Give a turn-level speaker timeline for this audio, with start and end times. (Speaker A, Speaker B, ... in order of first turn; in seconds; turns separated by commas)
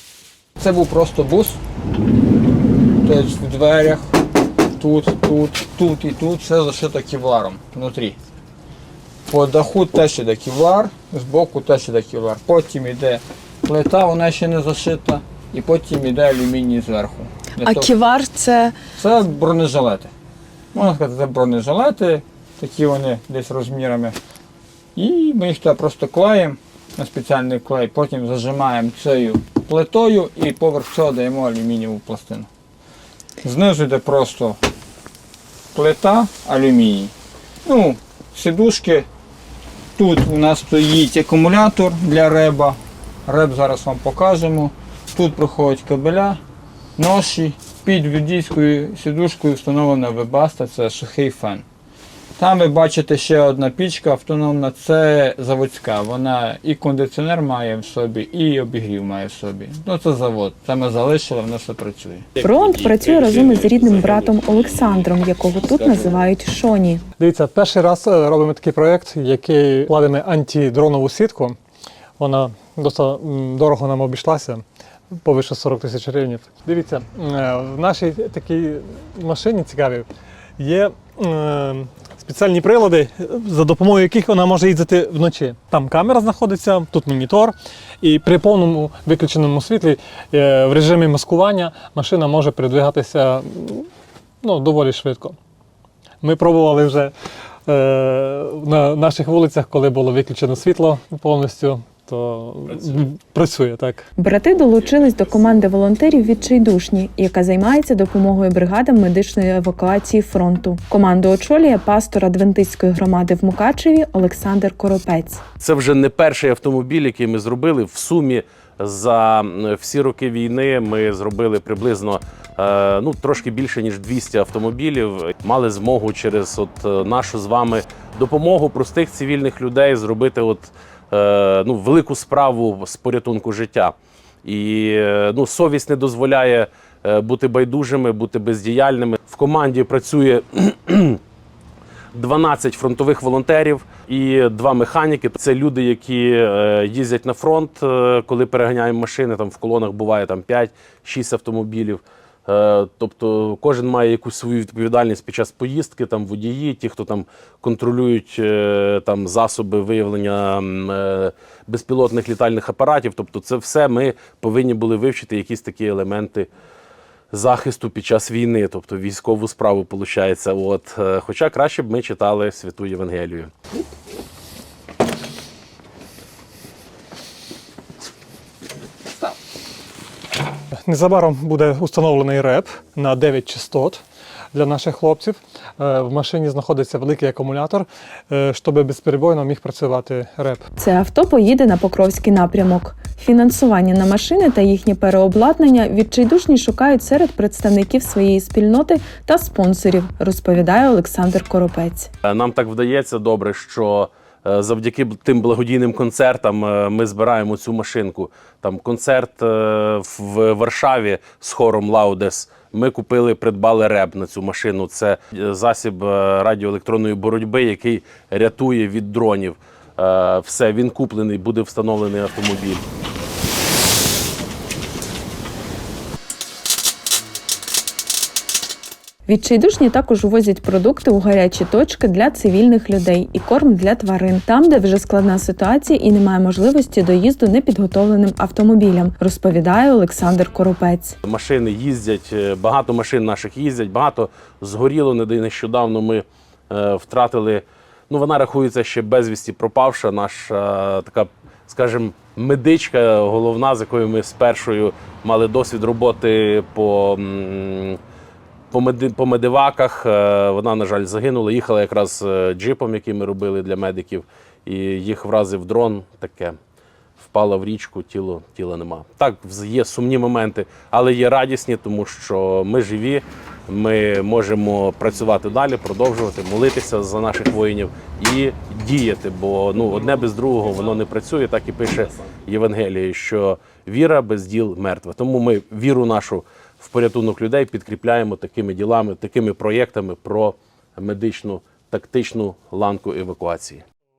Speaker A: 0.6-1.6, Speaker A: 3.0-4.2, Speaker A: 4.8-8.2, Speaker A: 9.3-17.9, Speaker B: 17.6-18.8, Speaker A: 19.0-20.1, Speaker A: 20.7-24.2, Speaker A: 25.0-32.5, Speaker A: 33.4-34.6, Speaker A: 35.7-37.1, Speaker A: 37.6-39.1, Speaker A: 40.0-46.4, Speaker A: 47.0-51.6, Speaker A: 52.4-62.3, Speaker C: 62.4-65.1, Speaker B: 62.4-67.0, Speaker C: 65.6-66.3, Speaker D: 67.2-71.6, Speaker D: 72.2-74.6, Speaker D: 75.2-93.9, Speaker D: 94.4-95.4, Speaker D: 96.2-97.1, Speaker D: 97.7-104.1, Speaker B: 104.2-115.4, Speaker C: 115.6-133.9, Speaker C: 134.4-141.2, Speaker C: 142.1-166.5, Speaker C: 167.3-173.5, Speaker D: 180.8-184.0, Speaker D: 184.5-190.6, Speaker B: 190.8-202.1, Speaker C: 202.2-222.8, Speaker B: 229.3-241.2, Speaker C: 241.2-258.0, Speaker C: 258.7-266.6, Speaker C: 267.2-293.8